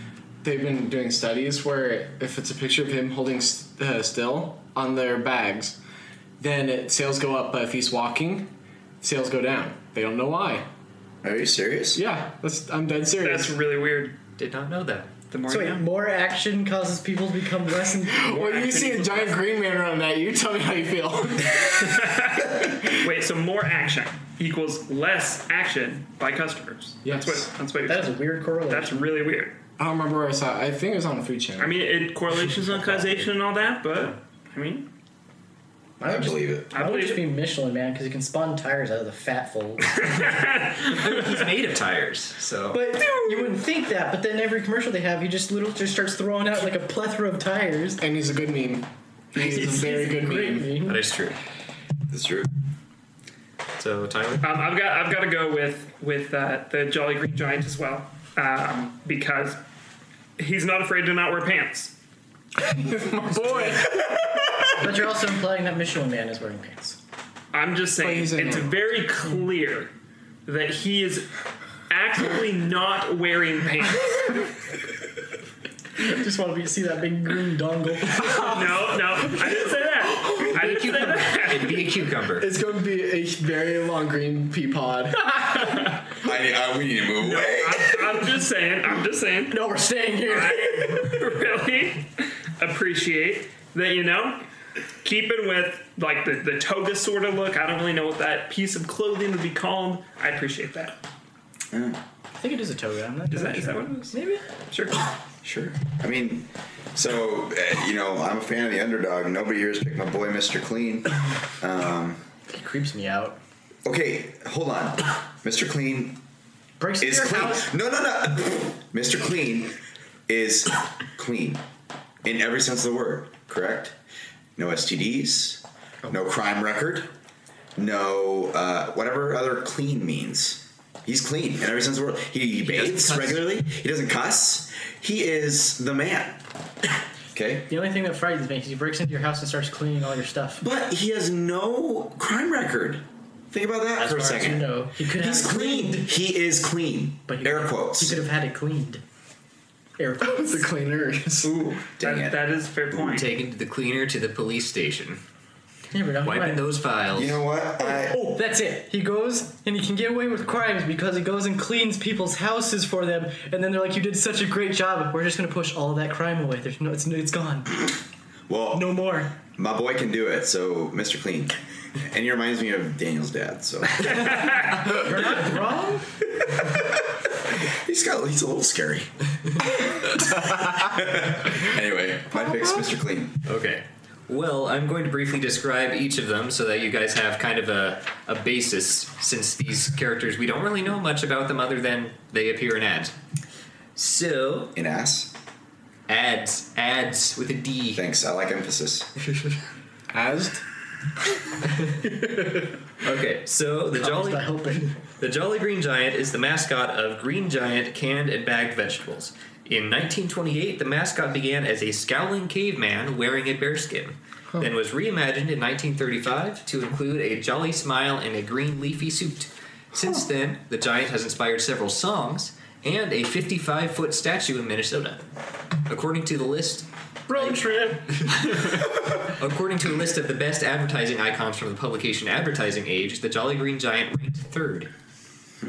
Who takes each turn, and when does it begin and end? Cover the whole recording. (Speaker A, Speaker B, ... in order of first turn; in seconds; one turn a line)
Speaker A: 0.4-5.8
Speaker A: 6.4-10.6
Speaker B: 11.2-12.0
Speaker A: 11.9-13.5
Speaker C: 13.2-14.2
Speaker D: 14.4-15.1
Speaker C: 15.3-15.8
Speaker E: 15.4-18.3
Speaker A: 18.1-23.0
Speaker C: 18.3-19.4
Speaker C: 21.6-29.6
Speaker A: 27.0-27.5
Speaker E: 27.9-29.2
Speaker A: 29.8-31.8
Speaker C: 31.6-34.9
Speaker A: 32.7-33.2
Speaker E: 36.0-40.2
Speaker B: 36.0-36.7
Speaker C: 36.7-37.3
Speaker C: 40.0-41.5
Speaker D: 40.8-42.8
Speaker E: 42.7-48.0
Speaker C: 43.1-43.5
Speaker A: 48.0-50.8
Speaker E: 49.4-51.0
Speaker D: 50.8-51.4
Speaker B: 52.1-52.5
Speaker D: 53.8-54.5
Speaker C: 54.4-59.6
Speaker C: 60.4-61.9
Speaker A: 62.6-64.0
Speaker E: 64.6-67.0
Speaker C: 67.5-69.9
Speaker A: 68.0-68.7
Speaker C: 70.5-71.3
Speaker C: 71.9-74.3
Speaker E: 76.0-78.9
Speaker C: 78.4-81.8
Speaker D: 80.5-82.5
Speaker A: 82.4-85.8
Speaker B: 86.2-88.0
Speaker C: 87.2-89.6
Speaker E: 89.5-91.2
Speaker C: 90.2-94.5
Speaker C: 95.0-100.9
Speaker B: 101.7-102.0
Speaker E: 102.4-104.4
Speaker C: 103.3-104.2
Speaker B: 105.4-112.2
Speaker E: 112.5-113.4
Speaker B: 113.8-116.2
Speaker E: 116.8-117.7
Speaker B: 117.0-119.8
Speaker B: 120.3-121.6
Speaker B: 122.2-124.0
Speaker B: 124.6-127.1
Speaker B: 127.8-136.4
Speaker D: 132.6-133.4
Speaker B: 137.3-137.7
Speaker E: 137.7-140.6
Speaker B: 140.6-148.2
Speaker E: 143.9-146.1
Speaker E: 147.3-149.0
Speaker E: 150.0-150.7
Speaker A: 150.2-151.6
Speaker B: 151.4-152.5
Speaker C: 152.0-153.3
Speaker D: 152.9-155.2
Speaker E: 155.9-156.7
Speaker D: 156.2-157.4
Speaker B: 157.1-158.3
Speaker E: 157.8-167.9
Speaker B: 168.5-174.5
Speaker E: 168.7-169.3
Speaker E: 174.7-176.1
Speaker B: 176.4-183.4
Speaker D: 183.4-193.1
Speaker D: 193.9-194.7
Speaker B: 194.7-195.3
Speaker D: 196.1-198.0
Speaker B: 197.9-199.1
Speaker A: 200.1-200.6
Speaker A: 201.8-202.7
Speaker D: 203.0-204.6
Speaker E: 203.9-205.0
Speaker D: 205.1-225.2
Speaker D: 225.9-227.6
Speaker E: 227.3-228.6
Speaker D: 228.1-234.9